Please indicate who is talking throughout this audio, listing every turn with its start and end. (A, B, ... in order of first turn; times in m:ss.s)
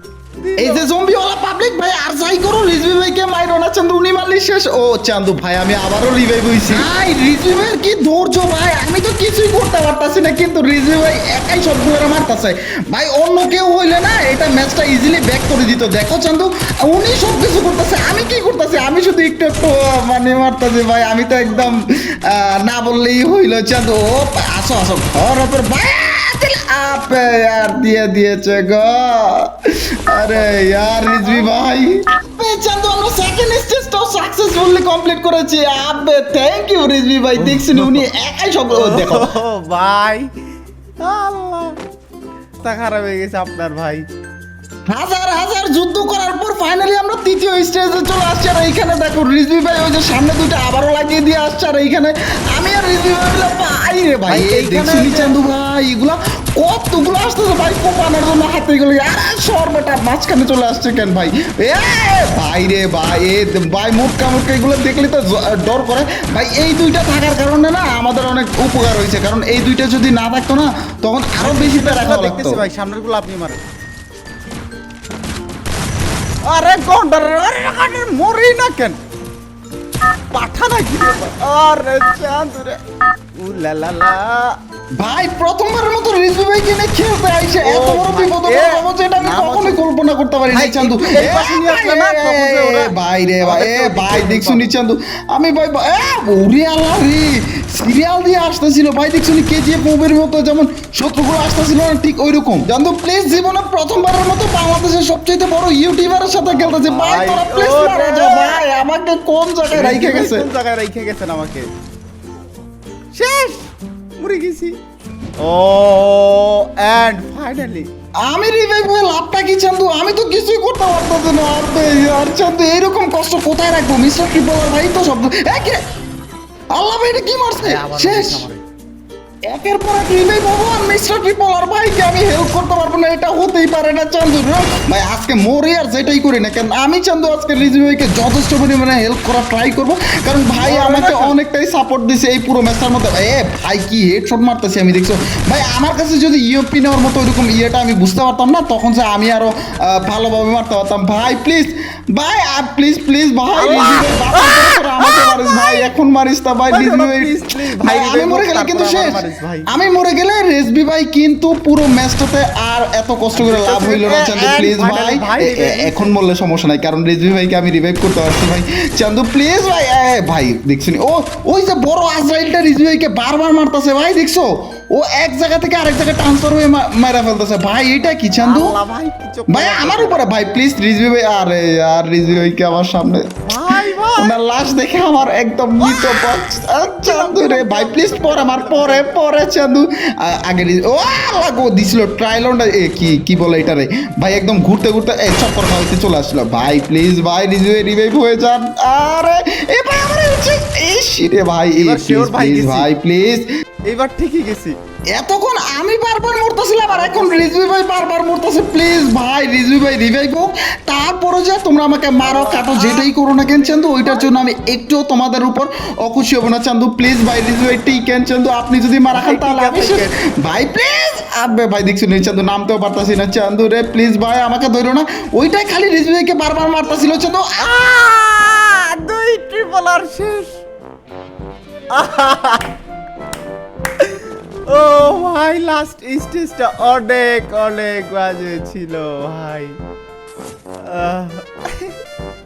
0:00.4-0:00.8 A
0:00.6-0:29.5 B
0:30.1-0:39.3 B
0:30.3-0:31.5 A
0:37.4-0:38.1 A
0:38.7-0:40.3 A
0:41.0-0:41.8 A
0:42.6-0:44.0 A
0:44.9-1:12.6 B
0:54.3-0:55.3 A
1:11.4-1:13.6 A
1:16.4-1:19.0 A
1:20.3-1:22.8 A
1:23.3-1:24.6 A
1:25.0-1:50.5 B
1:27.6-1:29.9 A
1:30.5-1:34.7 A
1:46.4-1:48.6 A
1:49.7-1:51.7 A
1:53.1-1:54.8 A
1:55.4-1:57.9 A
1:58.2-2:05.8 B
2:06.7-2:08.4 B
2:07.6-2:08.6 A
2:09.4-2:58.8 B
2:20.5-2:21.4 A
2:33.5-2:35.8 A
2:36.7-2:39.7 A
2:43.3-2:46.1 A
2:58.3-3:00.2 A
2:59.5-3:03.5 B
3:03.4-3:04.4 A
3:04.2-3:23.4 B
3:05.8-3:06.4 A
3:07.0-3:09.2 A
3:21.7-3:22.9 A
3:23.9-3:24.8 A
3:25.1-3:47.7 B
3:26.9-3:27.6 A
3:32.2-3:34.3 A
3:39.1-3:40.1 A
3:47.6-3:50.6 A
3:51.9-3:52.7 A
3:54.0-3:59.8 A
4:00.8-4:02.0 A